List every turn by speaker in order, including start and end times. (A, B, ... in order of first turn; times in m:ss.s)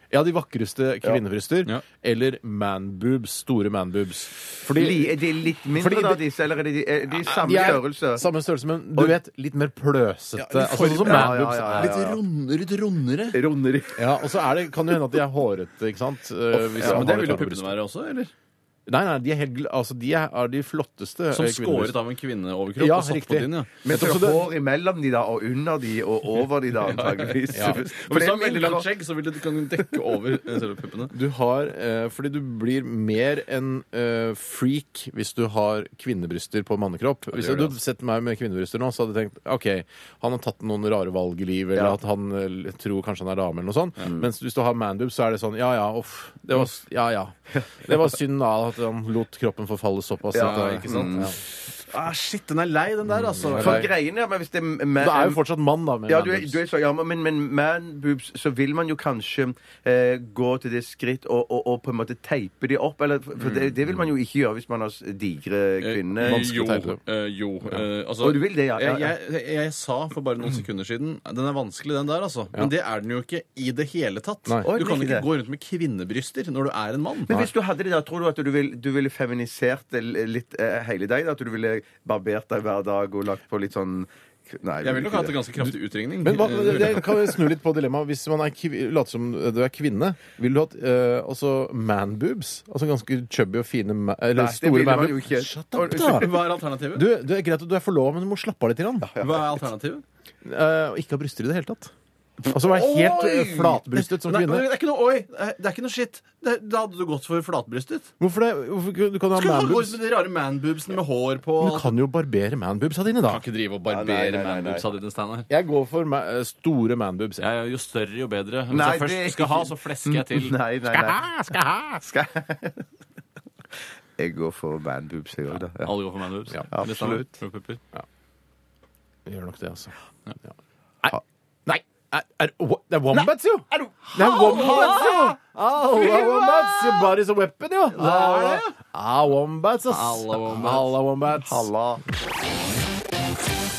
0:00.1-0:06.2 A
0:04.8-0:08.3 B
0:07.2-0:12.0 A
0:10.4-0:13.4 C
0:10.5-0:12.2 B
0:13.3-0:14.2 B
0:14.0-0:17.8 A
0:16.5-0:18.3 C
0:16.8-0:17.1 B
0:18.9-0:22.0 A
0:21.3-0:23.7 C
0:22.8-0:24.5 A
0:23.8-0:28.9 B
0:26.9-0:31.2 C
0:27.5-0:27.8 A
0:31.1-0:51.4 A
0:37.3-0:37.8 C
0:50.3-0:51.3 B
0:50.4-0:53.9 C
0:53.1-0:53.9 A
0:53.6-0:55.4 B
0:55.0-0:56.6 A
0:56.1-1:06.5 B
1:05.8-1:17.5 C
1:06.2-1:07.0 A
1:08.2-1:09.1 B
1:14.6-1:15.3 B
1:17.3-1:25.4 B
1:24.8-1:27.2 C
1:26.2-1:36.4 A
1:34.3-1:36.4 B
1:35.8-1:37.1 C
1:36.9-1:39.1 A
1:39.0-1:39.5 B
1:39.2-1:40.0 C
1:40.4-1:41.9 A
1:42.5-1:44.7 A
1:42.5-1:43.5 B
1:42.7-1:48.1 C
1:48.2-1:50.0 A
1:49.4-1:51.9 C
1:51.6-1:53.4 A
1:53.3-1:55.5 C
1:53.9-1:54.9 B
1:55.5-1:57.5 A
1:57.4-2:00.6 C
1:58.7-2:01.3 B
2:00.9-2:02.0 A
2:02.0-2:02.9 B
2:04.2-2:05.9 B
2:05.8-2:07.8 C
2:06.7-2:07.3 B
2:09.3-2:10.0 A
2:11.0-2:21.7 A
2:13.7-2:15.3 B
2:14.5-2:15.1 C
2:15.9-2:16.9 B
2:17.9-2:18.7 C
2:19.9-2:20.9 C
2:21.4-2:22.0 B